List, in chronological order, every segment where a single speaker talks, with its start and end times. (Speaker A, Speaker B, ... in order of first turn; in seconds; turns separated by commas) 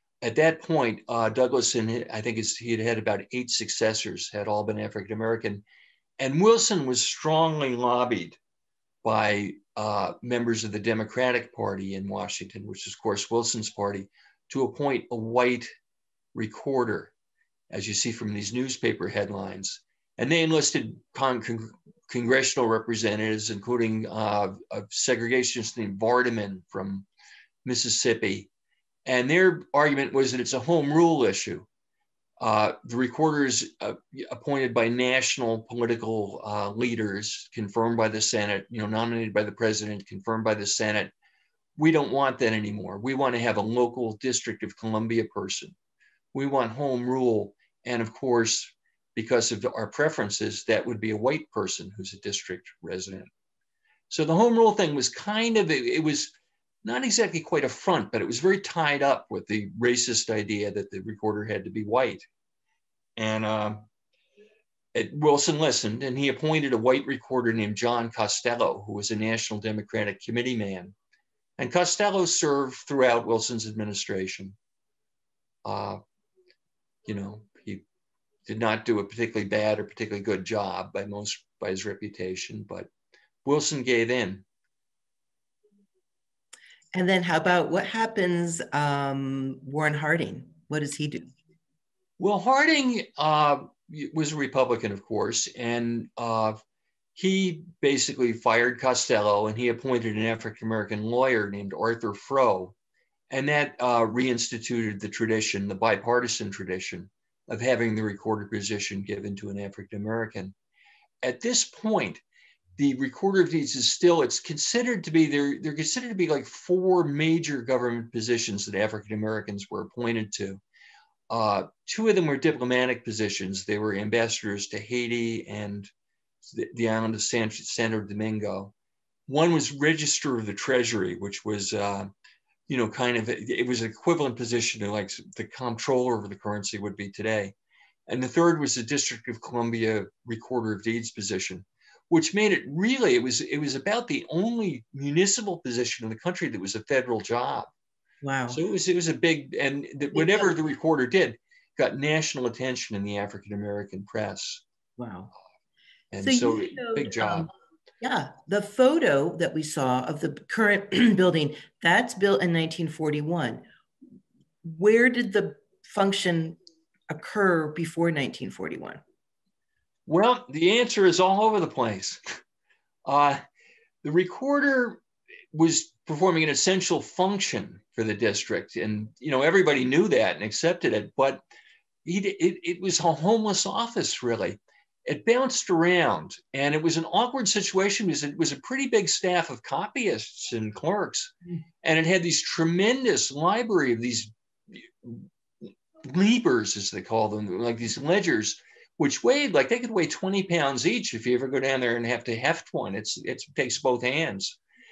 Speaker A: 0.2-5.6, Speaker A: 6.2-8.4, Speaker A: 9.0-15.7, Speaker A: 16.3-17.1, Speaker A: 17.7-27.1, Speaker A: 27.6-28.5, Speaker A: 29.1-31.7, Speaker A: 32.4-41.1, Speaker A: 41.8-45.8, Speaker A: 46.3-53.3, Speaker A: 54.1-62.3, Speaker A: 63.2-63.9, Speaker A: 64.9-71.0, Speaker A: 71.6-74.6, Speaker A: 75.7-76.0, Speaker A: 77.0-77.8, Speaker A: 78.5-82.9, Speaker A: 83.4-84.5, Speaker B: 86.9-91.3, Speaker A: 92.2-96.6, Speaker A: 97.2-102.8, Speaker A: 103.3-110.5, Speaker A: 111.2-112.2, Speaker A: 112.8-120.6, Speaker A: 121.3-125.9, Speaker A: 126.4-128.7, Speaker A: 129.3-132.1, Speaker A: 132.7-137.6, Speaker A: 138.1-147.7, Speaker B: 148.2-148.6, Speaker A: 148.5-154.6, Speaker B: 150.1-150.5, Speaker B: 155.0-155.3, Speaker A: 156.1-157.5, Speaker B: 156.2-163.6, Speaker B: 164.6-166.6, Speaker B: 167.1-169.0, Speaker A: 170.1-172.2, Speaker A: 173.1-173.4, Speaker A: 174.0-181.4, Speaker A: 182.1-204.6